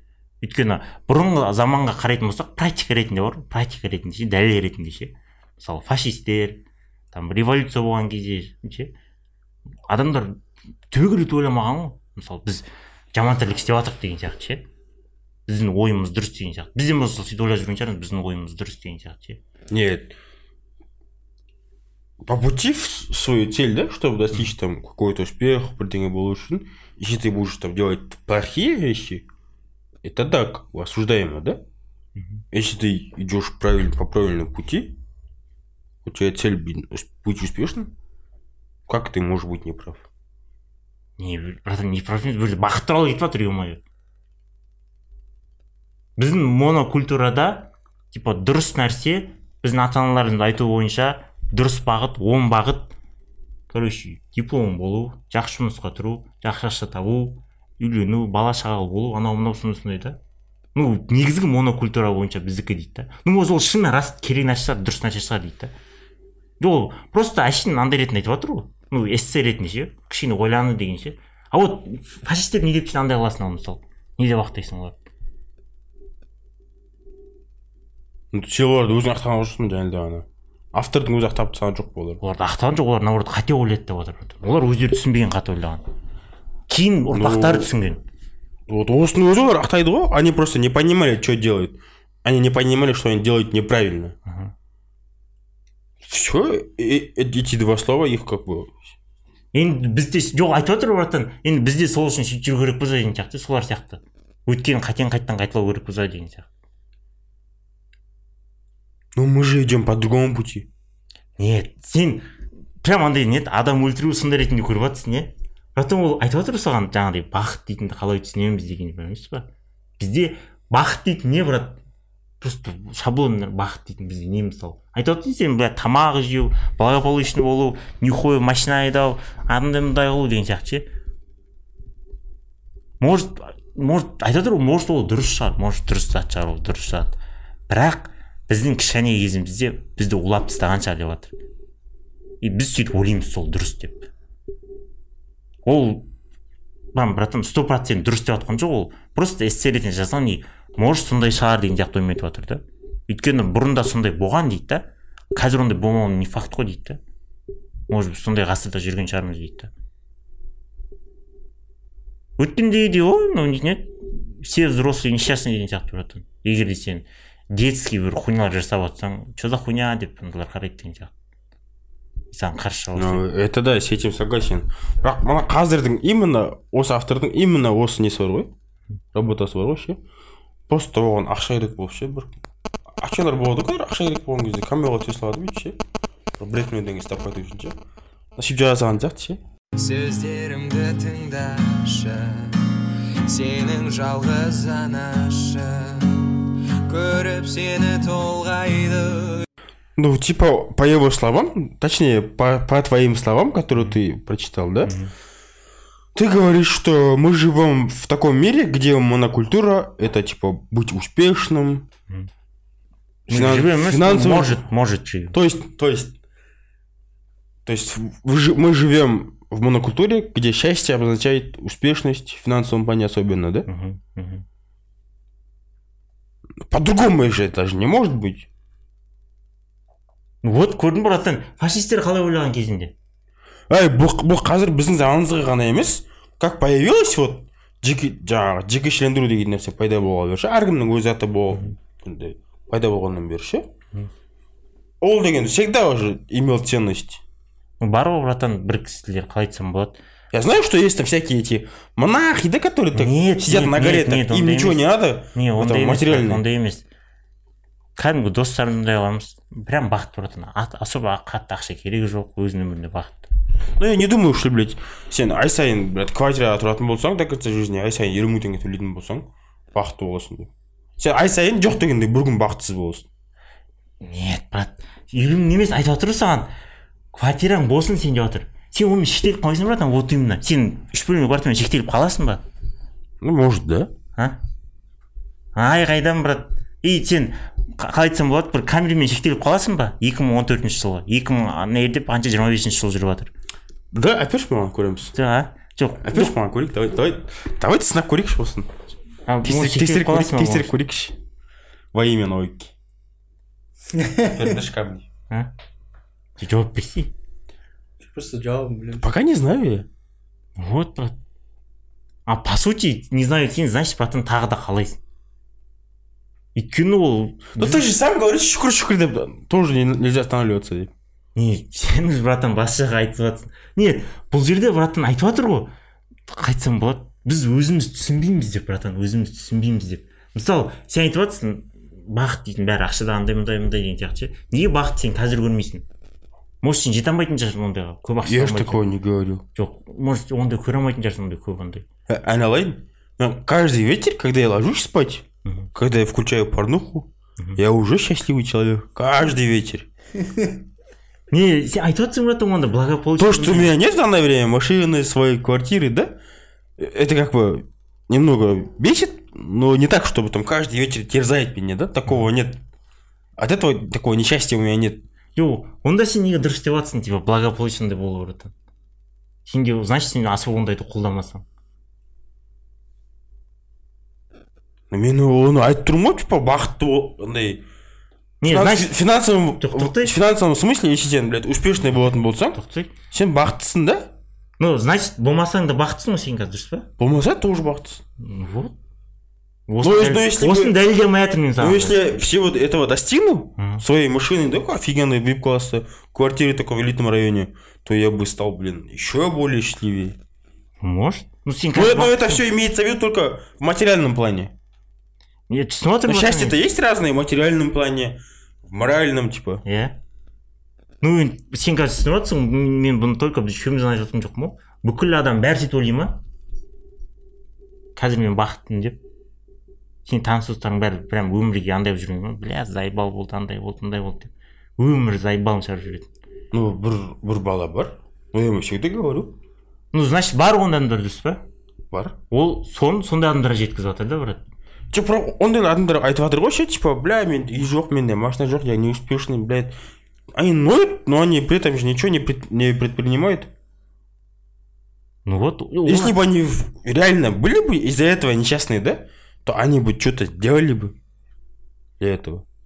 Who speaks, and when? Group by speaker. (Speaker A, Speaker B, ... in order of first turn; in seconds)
Speaker A: 0.4-8.9, 9.9-14.6, 15.5-19.4, 32.1-32.4, 41.2-43.8, 46.2-52.9, 53.7-60.2, 60.8-65.7, 66.6-75.0, 82.2-85.8, 86.7-88.0, 94.3-94.5, 99.5-106.5, 111.4-112.3, 112.8-119.5, 120.0-121.8, 122.4-130.9, 133.0-137.1, 137.7-141.3, 142.4-144.1, 145.6-146.1, 146.9-157.0, 157.9-159.7, 162.4-171.1, 172.3-173.2, 204.8-205.1, 213.3-215.4, 223.7-224.4, 230.4-232.9, 247.8-250.0, 252.9-254.8, 255.3-256.8, 258.0-263.3, 274.0-276.5, 277.1-282.4, 285.6-293.3, 295.1-296.3, 299.3-300.7, 306.4-307.1, 310.6-311.1, 312.3-315.0, 316.6-317.9, 321.4-325.7, 326.3-335.9, 336.6-338.8, 339.6-341.9, 351.3-353.7, 365.4-368.5, 369.5-371.4, 378.4-380.1, 382.6-382.9, 384.6-386.9, 388.2-388.7, 389.7-392.0, 393.6-393.8, 400.8-402.4, 405.5-406.6, 409.6-410.0, 411.0-416.2, 418.0-419.0, 420.1-426.1, 429.9-431.4, 432.3-434.5, 445.3-446.1
Speaker B: 19.7-20.1, 22.2-29.3, 30.0-31.6, 32.5-35.0, 36.0-37.9, 38.9-40.1, 78.3-82.2, 87.1-87.7, 88.7-94.1, 96.0-98.9, 109.2-110.7, 172.9-178.5, 179.1-180.0, 180.7-182.3, 183.0-185.8, 186.4-187.8, 188.4-189.4, 200.0-204.9, 206.1-211.9, 213.3-214.6, 215.3-216.1, 217.7-223.7, 226.6-228.5, 233.7-243.7, 245.0-247.2, 250.3-256.4, 263.8-273.1, 283.2-283.9, 293.9-295.1, 296.0-298.7, 299.4-301.2, 301.9-302.7, 304.2-305.1, 309.0-309.9, 317.5-320.9, 338.2-339.4, 342.1-349.9, 353.2-356.2, 356.8-362.6, 363.4-365.0, 374.9-377.6, 378.4-382.6, 383.1-384.1, 387.0-388.0, 389.8-390.8, 391.6-400.2, 401.7-404.5, 406.1-409.6, 426.5-429.4, 431.9-432.2, 434.9-439.8, 440.4-443.5, 445.8-450.9, 452.0-452.4
Speaker C: 189.8-199.5
Speaker D: 303.9-304.5, 308.0-309.1, 350.2-350.6